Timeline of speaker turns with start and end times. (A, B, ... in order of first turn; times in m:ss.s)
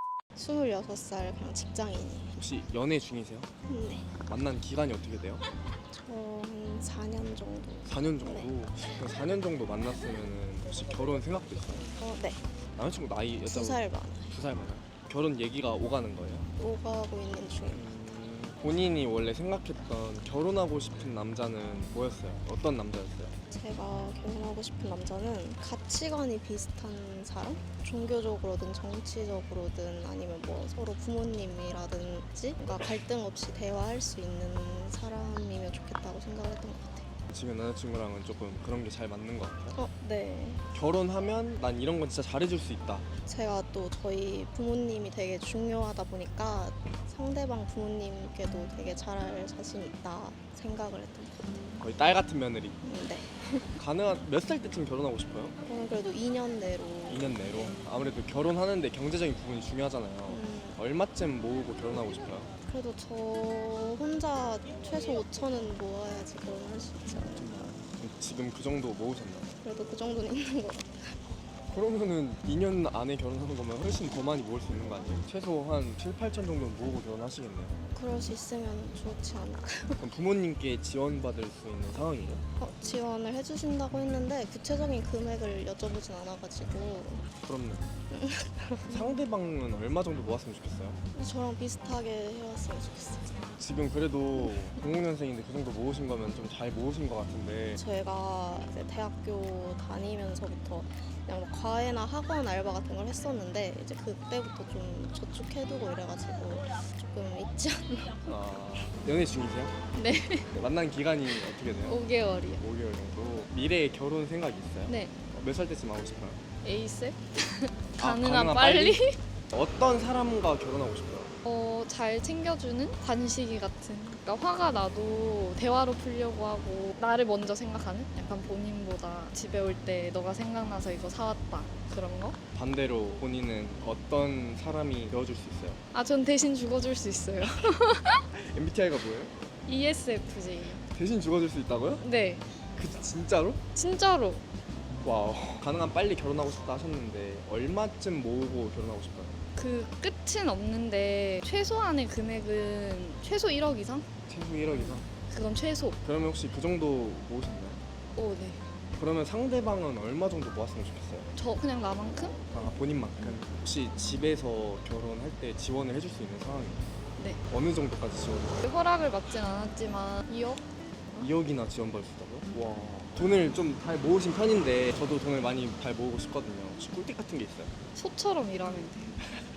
0:00.4-0:02.4 A
0:02.4-0:03.5 B
0:03.6-0:04.2 A
0:04.1-0:05.4 B
0:05.9-0:08.5 A
0:07.8-0:11.9 B
0:12.0-0:12.4 A
0:12.7-0:16.5 B
0:13.4-0:14.4 A
0:16.6-0:17.9 A
0:17.7-0:23.3 B
0:23.5-0:37.1 A
0:37.3-0:39.8 B
0:39.7-0:40.6 A
0:40.7-0:43.1 B
0:43.2-0:51.8 A
0:51.8-0:52.8 B
0:52.8-0:53.7 A
0:53.8-0:55.6 B
0:55.6-0:57.3 A
0:57.1-1:02.5 B
1:00.3-1:00.8 A
1:02.6-1:07.8 A
1:07.4-1:09.6 B
1:09.6-1:11.2 A
1:11.7-1:17.8 B
1:17.9-1:20.0 A
1:20.0-1:22.4 B
1:22.6-1:27.2 A
1:27.4-1:27.9 B
1:28.1-1:29.2 A
1:28.9-1:31.0 B
1:31.1-1:33.5 A
1:33.6-1:37.8 B
1:37.8-1:48.3 A
1:48.3-1:49.7 B
1:49.9-1:50.5 C
1:50.5-1:52.0 B
1:51.8-1:52.6 C
1:52.6-1:56.4 B
1:54.9-1:55.1 C
1:56.6-1:59.2 C
1:58.0-1:59.0 B
1:59.5-2:01.3 B
2:01.4-2:12.4 C
2:12.5-2:15.8 B
2:15.9-2:18.2 C
2:18.3-2:19.3 B
2:19.6-2:20.8 C
2:20.9-2:22.0 B
2:22.0-2:22.4 C
2:22.7-2:23.6 B
2:23.7-2:24.4 C
2:25.0-2:29.4 B
2:29.6-2:34.0 C
2:34.3-2:35.1 B
2:35.2-2:36.0 C
2:36.0-2:37.8 B
2:38.1-2:38.6 C
2:38.9-2:41.3 B
2:41.4-2:42.4 C
2:42.5-2:46.9 B
2:47.5-2:48.6 B
2:48.6-2:51.3 C
2:51.2-2:57.7 B
2:57.9-2:59.2 C